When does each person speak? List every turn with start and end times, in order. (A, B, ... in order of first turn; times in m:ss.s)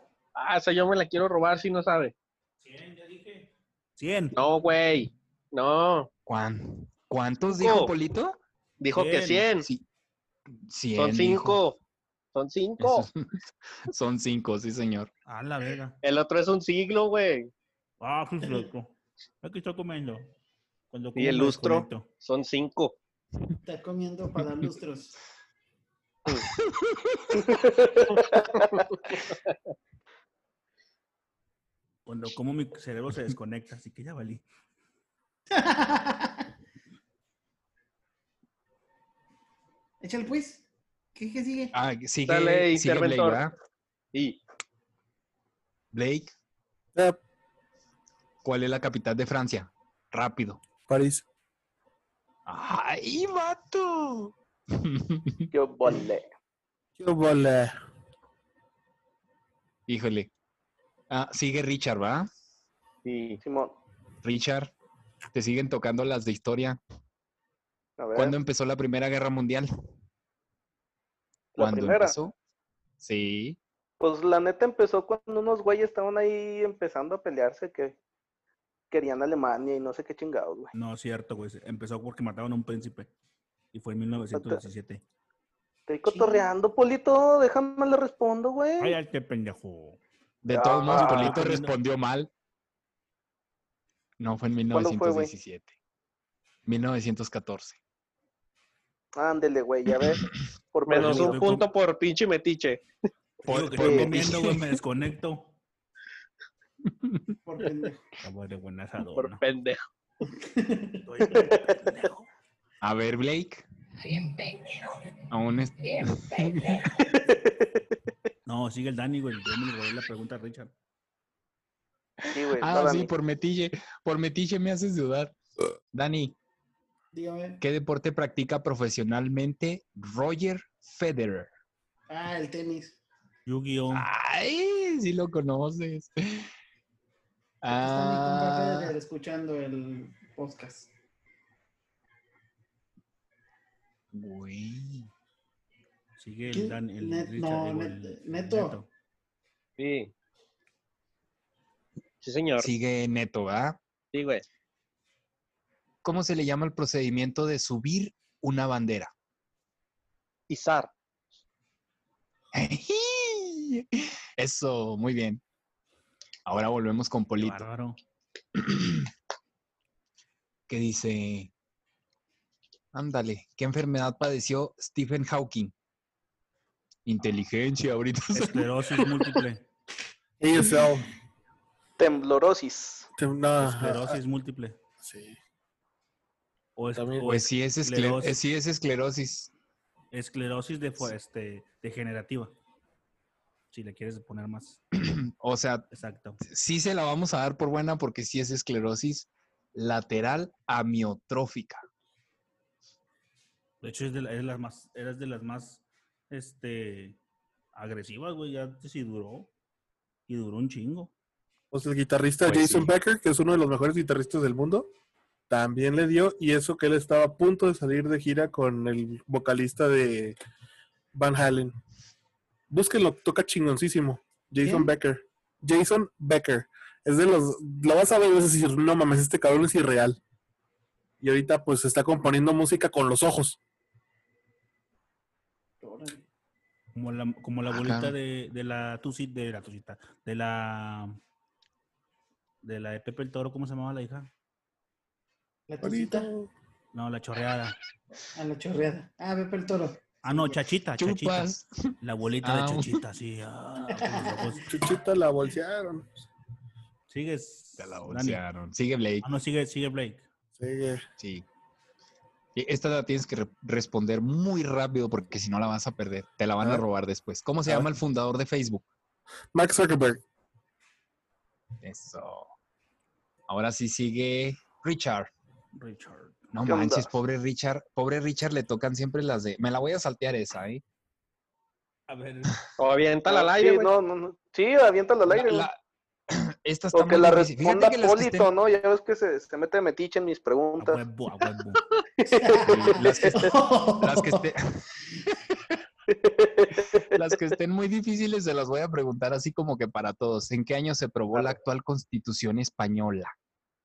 0:00.3-0:02.1 A
0:02.6-0:04.4 B
0:04.3-0:06.1 A
0:06.2-0:08.4 C
0:07.5-0:07.9 A
0:08.8-0:09.7 A
0:08.9-0:09.4 B
0:10.6-0:11.6 C
0:11.0-0:11.8 A
0:12.3-0:13.1 A
0:12.8-0:15.1 C
0:15.2-0:16.0 B
0:16.0-0:17.5 A
0:18.0-0:20.3 B
0:20.9-0:22.1 B
0:21.2-0:23.0 A
0:23.6-0:25.2 D
0:26.3-0:27.4 C
0:27.3-0:28.8 E
0:32.0-0:34.4 B
0:35.5-0:36.4 D
0:40.0-0:40.6 D
0:41.1-0:41.7 D
0:41.7-0:43.5 C
0:42.3-0:43.4 A
0:44.1-0:44.4 A
0:45.9-0:46.3 C
0:48.4-0:50.6 C
0:50.9-0:51.2 F
0:52.4-0:55.5 C
0:55.5-0:56.3 E
0:57.0-0:57.7 F
0:59.9-1:00.3 C
1:01.1-1:02.3 C
1:03.0-1:03.4 A
1:03.4-1:03.8 E
1:04.2-1:04.7 C
1:05.3-1:06.8 C
1:08.0-1:08.4 E
1:08.1-1:09.7 C
1:11.6-1:12.1 E
1:11.6-1:12.3 C
1:13.0-1:13.6 C
1:14.0-1:18.0 E
1:18.9-1:20.7 E
1:20.7-1:23.1 B
1:23.7-1:25.0 B
1:24.3-1:24.6 E
1:25.9-1:29.0 E
1:26.1-1:26.5 D
1:28.8-1:30.0 B
1:30.4-1:32.3 C
1:30.5-1:31.4 E
1:30.9-1:31.7 B
1:34.2-1:35.7 C
1:34.7-1:35.3 E
1:36.6-1:37.8 C
1:39.2-1:41.5 E
1:40.9-1:42.8 A
1:40.9-1:41.7 B
1:43.4-1:44.7 C
1:43.4-1:45.5 B
1:43.8-1:44.2 E
1:46.9-1:47.2 C
1:47.4-1:48.0 D
1:48.2-1:49.4 B
1:49.1-1:49.8 A
1:50.4-1:51.0 D
1:51.0-1:52.3 B
1:51.3-1:51.6 E
1:52.8-1:53.6 C
1:54.0-1:55.0 G
1:55.3-1:56.8 C
1:55.8-1:57.1 G
1:57.2-1:57.8 E
1:58.4-2:00.7 B
2:02.2-2:05.4 C
2:02.3-2:03.1 E
2:05.9-2:06.4 C
2:07.1-2:07.6 D
2:07.6-2:11.5 C
2:12.1-2:13.0 D
2:13.4-2:14.1 B
2:13.9-2:16.5 C
2:17.6-2:18.9 C
2:17.7-2:20.9 D
2:24.1-2:25.1 C
2:26.2-2:28.9 B
2:26.5-2:28.8 D
2:29.8-2:30.1 A
2:32.2-2:32.7 A
2:32.6-2:33.8 C
2:34.1-2:34.4 A
2:36.0-2:39.1 C
2:40.5-2:40.9 A
2:42.5-2:45.4 C
2:46.4-2:47.7 C
2:47.4-2:48.0 B
2:48.5-2:49.1 C
2:50.7-2:51.5 C
2:52.9-2:55.7 C
2:57.0-2:58.7 C
2:58.3-2:59.7 B
3:00.4-3:01.1 F
3:02.0-3:03.1 E
3:03.2-3:04.2 F
3:03.6-3:04.8 B
3:05.0-3:05.4 F
3:06.8-3:08.4 B
3:07.0-3:07.3 F
3:07.2-3:09.5 C
3:10.1-3:12.5 B
3:13.7-3:14.8 B
3:14.9-3:15.8 C
3:15.9-3:16.4 B
3:16.4-3:21.8 C
3:23.8-3:27.2 B
3:27.7-3:29.5 B
3:30.3-3:31.1 B
3:31.7-3:34.9 F
3:32.4-3:32.9 C
3:35.5-3:40.4 F
3:41.1-3:41.8 F
3:42.7-3:50.2 F
3:44.6-3:44.9 D
3:51.2-3:53.6 F
3:55.8-3:56.2 D
3:56.9-4:01.2 B
3:57.7-3:58.1 C
4:02.6-4:04.3 B
4:05.7-4:06.3 D
4:05.8-4:06.5 F
4:06.9-4:07.8 B
4:08.3-4:10.5 D
4:10.2-4:14.7 B
4:11.0-4:11.7 C
4:12.4-4:13.0 C
4:13.9-4:14.6 D
4:14.7-4:16.1 F
4:17.1-4:18.4 B
4:17.8-4:19.3 C
4:19.2-4:20.3 B
4:20.5-4:21.0 F
4:21.2-4:21.4 C
4:22.5-4:28.8 C
4:29.5-4:30.2 F
4:31.8-4:32.5 C
4:33.5-4:35.3 C
4:35.7-4:36.5 B
4:36.5-4:40.8 C
4:36.6-4:37.1 E
4:42.1-4:42.6 B
4:42.8-4:43.9 A
4:43.3-4:45.7 E
4:45.3-4:45.8 C
4:46.3-4:48.5 C
4:46.9-4:51.0 E
4:50.8-4:51.8 B
4:52.2-4:53.4 E
4:52.2-4:54.4 D
4:52.6-4:54.8 C
4:56.1-4:57.3 E
4:57.1-5:03.3 C